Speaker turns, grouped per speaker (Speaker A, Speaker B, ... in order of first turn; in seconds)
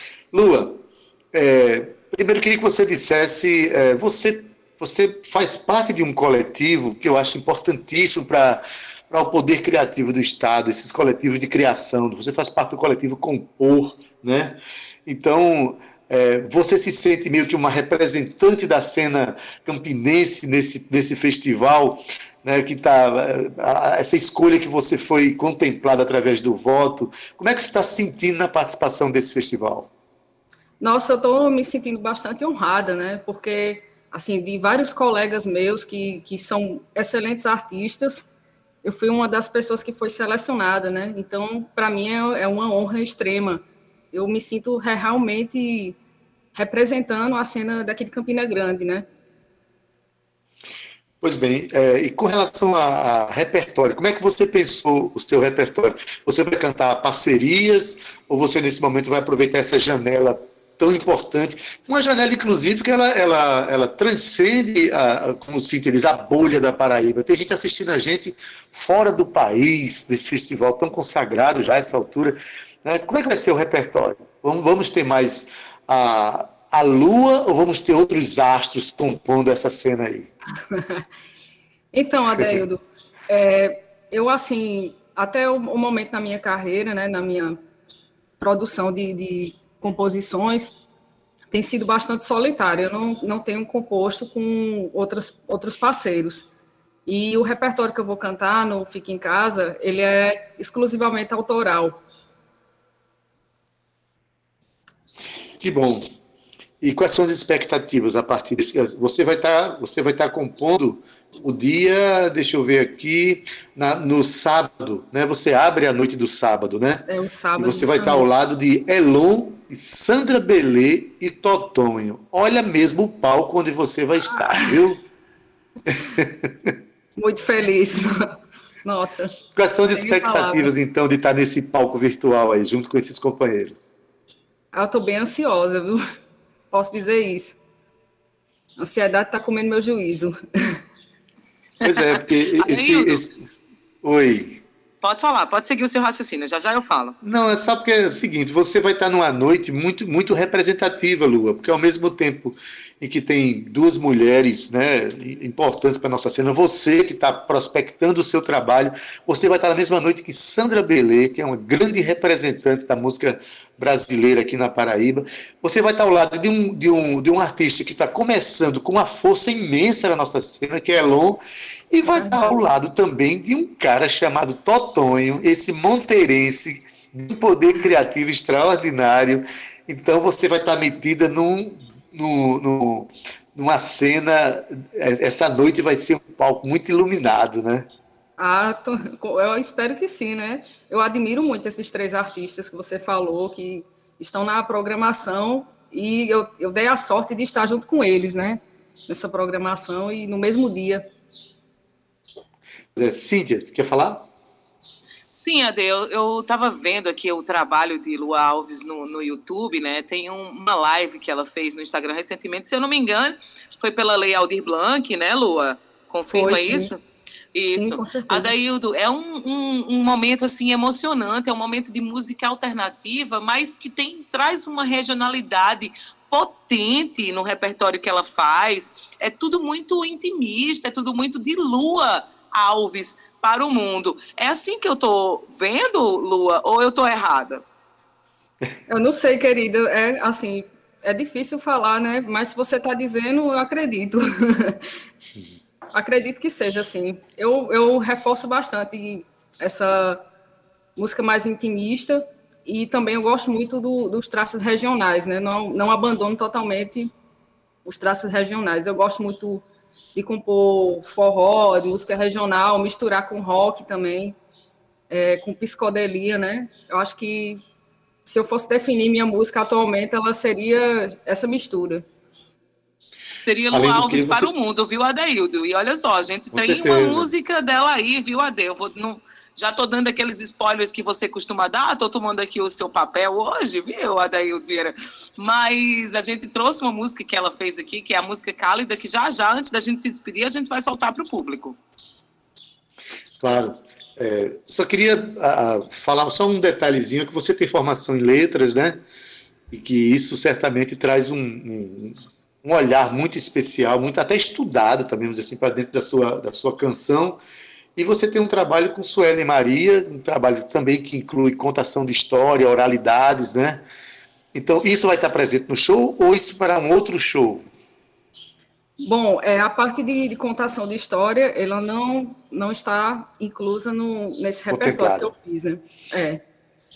Speaker A: 0.3-29.9, 51.2-80.3, 105.6-106.0, 106.8-117.0, 117.6-125.0, 125.9-126.7, 129.6-133.9, 141.8-143.4, 144.0-144.6, 147.2-187.9, 202.9-204.3, 273.7-274.5, 276.5-277.3, 293.4-299.0, 299.7-307.4, 307.9-313.8, 314.5-317.6, 324.7-325.3
Speaker B: 30.8-38.2, 38.8-46.0, 46.5-49.1, 80.7-81.0, 81.9-87.6, 88.4-90.8, 91.5-96.5, 97.0-102.0, 117.1-118.3, 124.3-124.8, 127.2-129.3, 129.9-130.7, 134.7-136.0, 136.7-137.6, 138.8-140.8, 172.1-172.5, 188.4-201.1, 216.3-216.9, 217.7-218.5, 238.9-244.8, 245.9-250.2, 250.9-257.1, 257.8-264.4, 265.1-267.6, 268.3-272.1, 319.0-326.4
Speaker C: 141.8-143.2, 145.0-147.1, 205.3-217.0, 217.6-237.6, 273.4-291.8